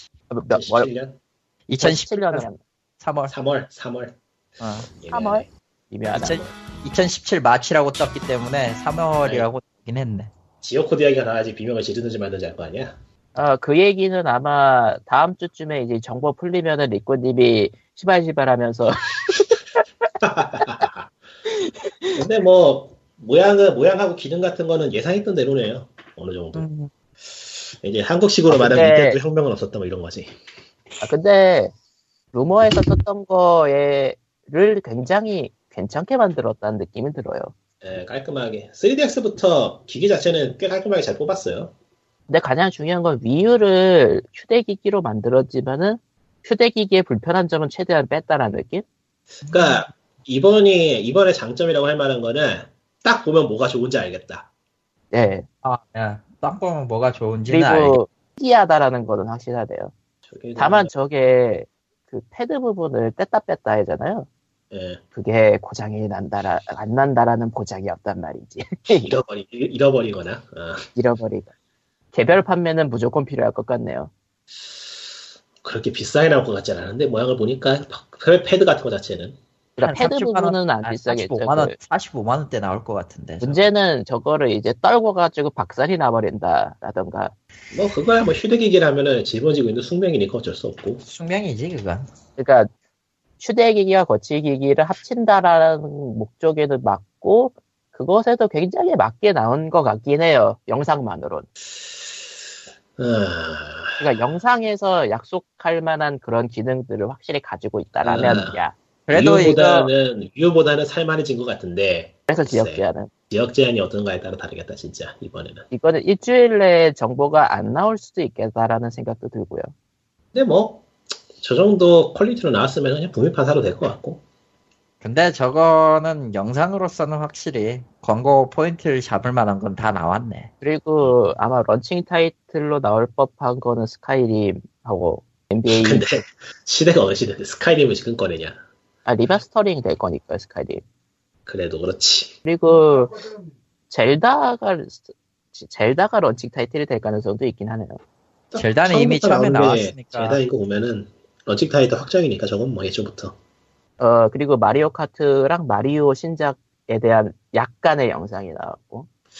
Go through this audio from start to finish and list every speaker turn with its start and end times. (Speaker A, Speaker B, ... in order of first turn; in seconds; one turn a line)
Speaker A: 0.3-0.9
Speaker B: 0.5-1.2
Speaker C: 1.7-2.5
Speaker A: 1.8-2.6
Speaker C: 3.0-3.3
Speaker B: 3.3-4.2
Speaker C: 4.6-4.9
Speaker B: 4.9-5.5
Speaker A: 5.1-6.4
Speaker B: 6.1-6.5
Speaker C: 6.1-10.3
Speaker B: 9.2-9.5
Speaker B: 10.6-12.9
Speaker A: 13.3-19.5
Speaker B: 20.2-21.1
Speaker A: 20.6-20.9
Speaker A: 21.5-22.2
Speaker B: 22.1-26.7
Speaker C: 26.5-26.9
Speaker B: 27.8-30.3
Speaker A: 28.5-29.2
Speaker A: 31.0-31.7
Speaker A: 32.3-37.5
Speaker B: 37.8-41.7
Speaker A: 42.3-48.8
Speaker B: 49.4-54.5
Speaker C: 49.5-49.9
Speaker A: 55.1-55.5
Speaker C: 55.6-58.0
Speaker A: 57.5-59.9
Speaker B: 60.3-60.9
Speaker A: 60.5-64.3
Speaker B: 64.7-65.0
Speaker A: 65.1-69.1
Speaker B: 68.9-70.9
Speaker A: 71.0-71.5
Speaker A: 72.1-74.1
Speaker B: 75.6-79.4
Speaker A: 79.8-81.8
Speaker C: 79.8-83.7
Speaker A: 83.4-87.3
Speaker B: 87.7-91.0
Speaker C: 91.0-92.0
Speaker A: 92.4-92.7
Speaker A: 93.4-101.5
Speaker B: 103.0-104.2
Speaker A: 104.0-108.8
Speaker B: 108.0-115.7
Speaker C: 108.1-108.4
Speaker C: 109.1-109.9
Speaker A: 112.3-113.1
Speaker A: 115.7-119.7
Speaker B: 120.3-120.8
Speaker B: 121.4-124.2
Speaker C: 125.0-130.5
Speaker A: 130.6-136.0
Speaker B: 135.7-138.6
Speaker A: 139.1-140.8
Speaker B: 141.5-142.4
Speaker A: 142.4-143.2
Speaker A: 143.9-148.0
Speaker B: 148.5-153.4
Speaker C: 148.5-150.4
Speaker A: 154.0-159.1